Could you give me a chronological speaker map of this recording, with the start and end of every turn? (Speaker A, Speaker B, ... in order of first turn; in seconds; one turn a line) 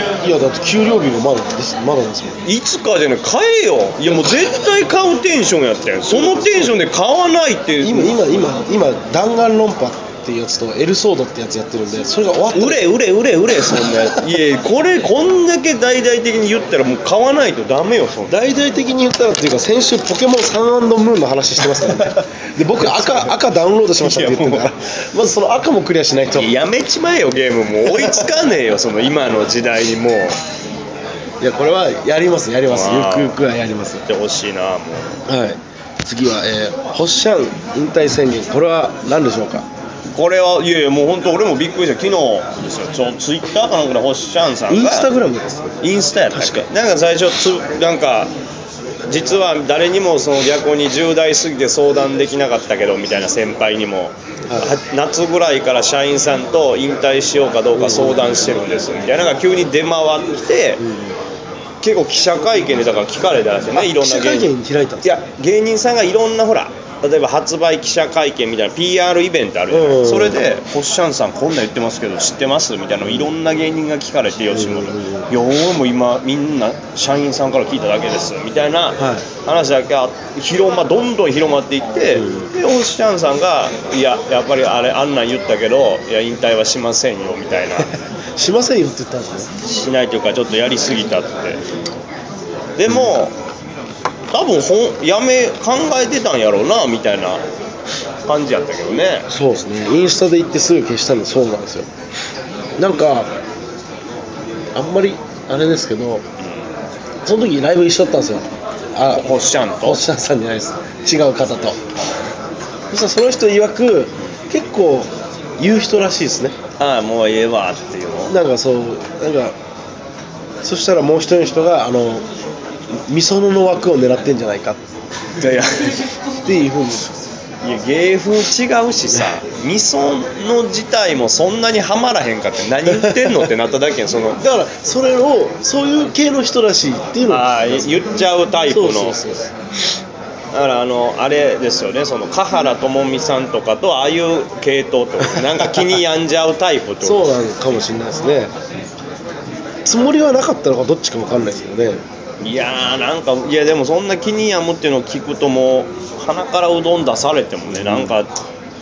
Speaker A: 0.2-2.4
Speaker B: 2.5-8.2
Speaker A: 7.8-12.9
Speaker B: 12.5-18.4
Speaker A: 13.9-14.1
Speaker A: 18.3-26.5
Speaker B: 21.8-22.2
Speaker B: 22.8-23.3
Speaker B: 24.0-24.7
Speaker B: 26.3-30.4
Speaker A: 31.4-34.1
Speaker B: 32.7-33.4
Speaker B: 34.1-35.2
Speaker A: 35.3-39.7
Speaker B: 40.1-45.1
Speaker A: 44.7-45.8
Speaker B: 45.8-48.3
Speaker A: 46.3-46.6
Speaker B: 49.1-60.8
Speaker A: 54.5-54.8
Speaker A: 57.7-58.6
Speaker A: 60.8-61.2
Speaker B: 61.8-64.5
Speaker A: 63.7-65.2
Speaker B: 65.0-87.9
Speaker A: 69.7-70.4
Speaker A: 74.5-75.3
Speaker A: 79.0-79.3
Speaker A: 82.1-82.5
Speaker A: 88.4-89.5
Speaker B: 89.6-91.6
Speaker B: 92.8-93.3
Speaker B: 94.3-97.4
Speaker B: 98.2-99.3
Speaker A: 99.3-101.9
Speaker A: 102.8-103.3
Speaker A: 104.8-106.2
Speaker A: 107.2-111.8
Speaker B: 109.1-110.0
Speaker A: 112.9-116.5
Speaker B: 116.8-118.3
Speaker A: 118.3-119.5
Speaker A: 120.6-122.2
Speaker A: 123.0-124.8
Speaker B: 125.4-126.1
Speaker A: 126.4-127.1
Speaker B: 127.6-134.4
Speaker A: 132.9-133.4
Speaker A: 134.4-138.0
Speaker B: 137.2-139.2
Speaker A: 138.7-139.5
Speaker B: 140.5-147.3
Speaker A: 147.0-148.5
Speaker A: 149.9-152.0
Speaker B: 152.4-158.4
Speaker A: 157.7-158.1